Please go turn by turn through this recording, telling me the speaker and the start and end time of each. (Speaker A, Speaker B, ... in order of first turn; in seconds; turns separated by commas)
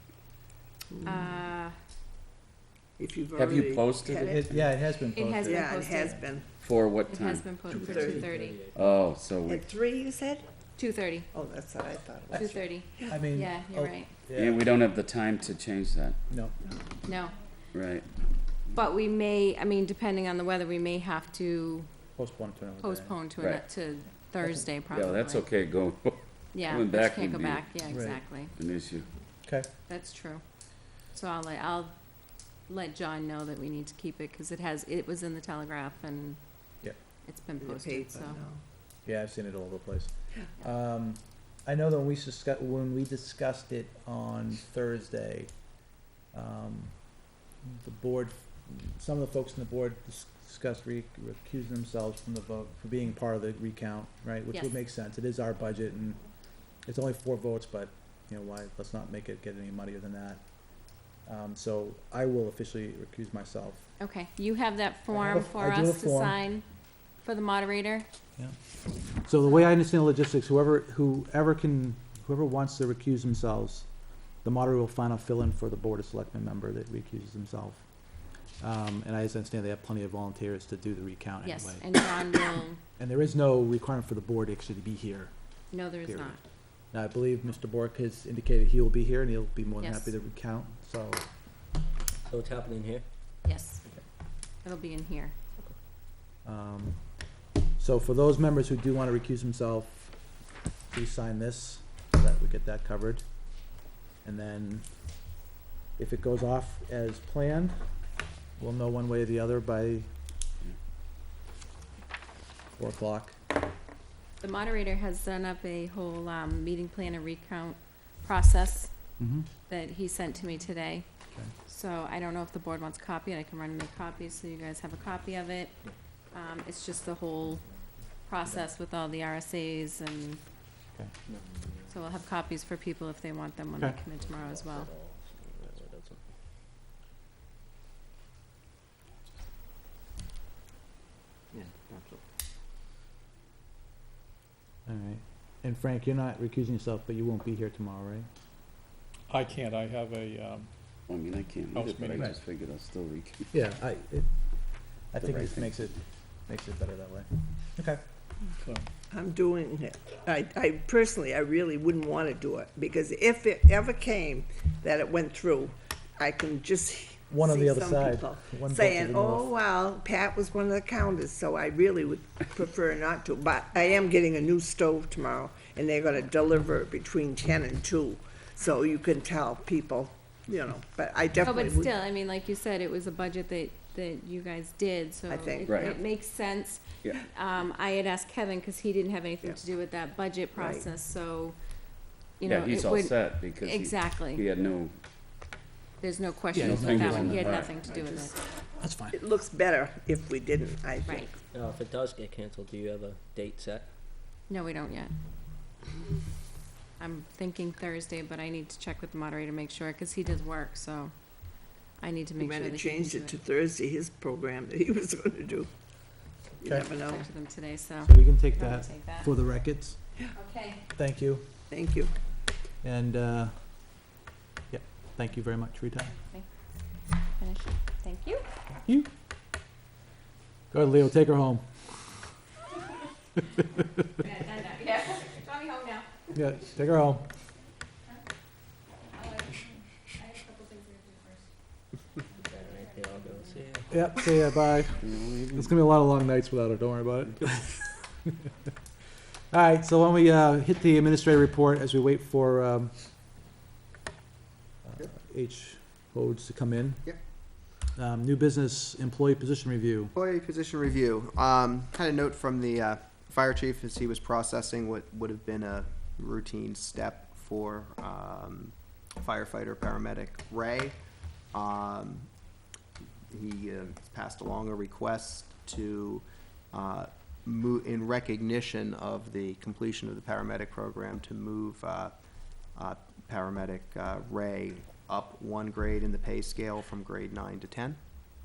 Speaker A: 0.9-1.3, Speaker B: 1.0-1.8, Speaker A: 3.0-4.6, Speaker C: 3.4-4.7, Speaker D: 4.3-6.2, Speaker B: 5.1-6.2, Speaker A: 5.4-6.5, Speaker C: 6.6-8.2, Speaker B: 7.1-8.6, Speaker A: 7.9-8.3, Speaker E: 8.3-8.8, Speaker C: 8.7-9.7, Speaker A: 9.4-10.5, Speaker B: 10.8-11.3, Speaker A: 11.3-13.2, Speaker B: 12.3-14.1, Speaker D: 13.1-14.7, Speaker C: 14.3-16.2, Speaker D: 16.3-16.6, Speaker B: 17.1-17.4, Speaker C: 17.7-18.1, Speaker B: 18.7-21.9, Speaker D: 22.2-23.2, Speaker B: 22.8-25.5, Speaker C: 23.4-23.6, Speaker C: 24.9-27.8, Speaker B: 26.5-28.5, Speaker D: 27.9-28.2, Speaker C: 28.5-29.1, Speaker D: 29.4-29.7, Speaker B: 29.9-30.4, Speaker B: 31.1-32.0, Speaker B: 32.7-36.4, Speaker B: 37.2-38.4, Speaker A: 37.6-38.6, Speaker D: 39.0-45.5, Speaker D: 46.3-56.2, Speaker D: 56.9-60.5, Speaker D: 61.2-63.9, Speaker B: 64.0-66.7, Speaker D: 65.1-66.4, Speaker B: 67.2-68.1, Speaker D: 69.1-73.9, Speaker B: 69.5-69.7, Speaker D: 74.4-77.9, Speaker D: 78.6-82.2, Speaker B: 81.4-82.8, Speaker D: 83.0-85.3, Speaker B: 85.7-86.4, Speaker D: 85.9-86.4, Speaker D: 86.9-91.2, Speaker B: 89.8-90.1, Speaker E: 92.3-93.0, Speaker B: 93.4-93.8, Speaker B: 94.6-95.3, Speaker D: 96.4-97.0, Speaker D: 97.8-100.2, Speaker D: 100.9-103.2, Speaker D: 104.2-104.9, Speaker D: 106.0-107.9, Speaker D: 108.6-110.1, Speaker D: 112.8-113.4, Speaker B: 114.4-118.9, Speaker D: 119.2-119.5, Speaker B: 119.7-121.1, Speaker B: 121.7-125.7, Speaker B: 126.3-127.7, Speaker B: 128.3-130.4, Speaker E: 131.3-131.9, Speaker B: 131.9-134.9, Speaker E: 134.2-136.2, Speaker E: 141.5-142.2, Speaker D: 144.9-148.3, Speaker F: 149.3-150.7, Speaker C: 151.1-153.5, Speaker F: 151.7-152.3, Speaker D: 153.5-158.0, Speaker C: 155.2-155.7, Speaker F: 158.6-158.9, Speaker A: 159.1-181.9, Speaker D: 167.3-169.5, Speaker B: 181.4-191.6, Speaker A: 185.3-186.0, Speaker C: 185.7-186.0, Speaker A: 190.5-190.9, Speaker B: 192.4-194.4, Speaker C: 192.4-194.9, Speaker B: 196.0-198.3, Speaker D: 196.5-197.5, Speaker C: 196.6-197.8, Speaker A: 197.9-198.3, Speaker D: 198.8-199.2, Speaker A: 199.1-201.4, Speaker E: 201.5-203.9, Speaker B: 204.5-205.1, Speaker B: 207.0-213.3, Speaker A: 212.4-215.7, Speaker A: 216.6-217.2, Speaker D: 216.6-216.9, Speaker B: 217.0-219.3, Speaker D: 218.0-220.3, Speaker B: 220.3-220.8, Speaker D: 220.9-221.5, Speaker A: 221.7-222.1, Speaker D: 222.8-223.9, Speaker D: 224.7-226.2, Speaker B: 226.2-226.5, Speaker B: 227.4-228.5, Speaker D: 230.7-231.8, Speaker B: 234.2-236.1, Speaker D: 236.3-237.3, Speaker E: 242.4-243.9, Speaker D: 243.9-247.8, Speaker C: 245.0-245.7, Speaker D: 249.5-253.0, Speaker D: 254.8-257.2, Speaker D: 257.9-260.1, Speaker G: 260.1-271.0, Speaker G: 271.5-272.3, Speaker G: 273.3-282.1, Speaker G: 282.8-288.0